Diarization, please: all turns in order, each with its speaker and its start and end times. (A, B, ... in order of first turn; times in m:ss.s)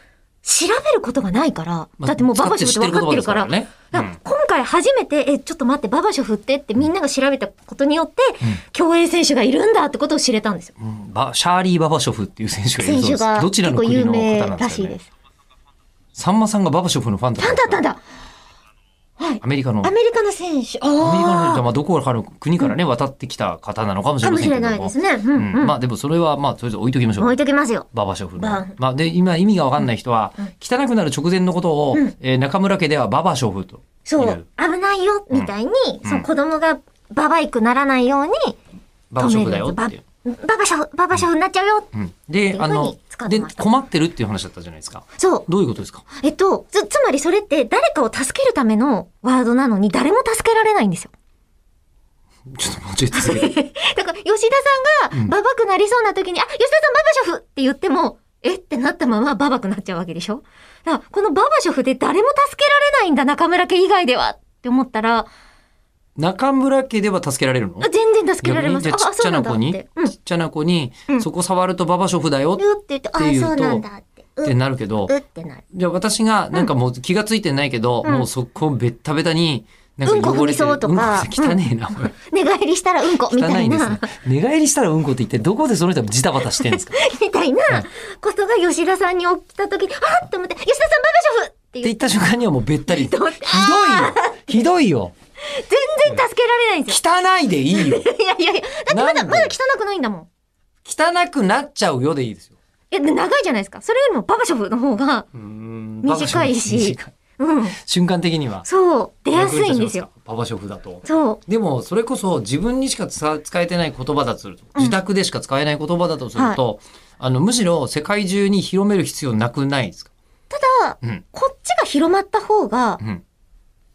0:00.4-0:10.7 A
0:02.0-0:04.2 B
0:10.8-0:15.0 B
0:12.8-0:15.1 A
0:16.1-0:17.8 B
0:17.4-0:18.0 A
0:19.2-0:21.6 A
0:19.4-0:19.9 B
0:21.0-0:27.4 B
0:24.2-0:25.8 A
0:27.2-0:27.9 A
0:27.9-0:34.4 B
0:28.4-0:28.8 A
0:34.0-0:38.6 A
0:39.1-0:40.0 B
0:39.2-0:41.9 A
0:41.9-0:46.0 B
0:42.5-0:43.7 A
0:45.2-0:45.5 A
0:46.2-0:51.1 A
0:52.5-0:53.5 B
0:53.1-1:05.3 A
1:06.2-1:07.9 B
1:07.8-1:10.1 A
1:08.4-1:12.6 B
1:12.6-1:14.5 A
1:13.2-1:13.8 B
1:14.4-1:15.1 B
1:15.1-1:15.6 A
1:15.7-1:22.1 B
1:20.0-1:21.6 A
1:22.1-1:24.1 A
1:23.3-1:27.0 B
1:26.6-1:31.9 A
1:31.8-1:35.1 B
1:32.9-1:34.4 A
1:35.4-1:37.0 A
1:36.9-1:38.0 B
1:37.7-1:40.3 A
1:38.9-1:39.6 B
1:40.8-1:42.5 B
1:42.9-1:45.3 A
1:45.3-1:47.1 B
1:46.0-1:47.8 A
1:47.8-1:48.7 B
1:48.6-1:50.1 A
1:49.3-2:00.1 B
1:51.0-1:51.4 A
2:00.5-2:03.0 A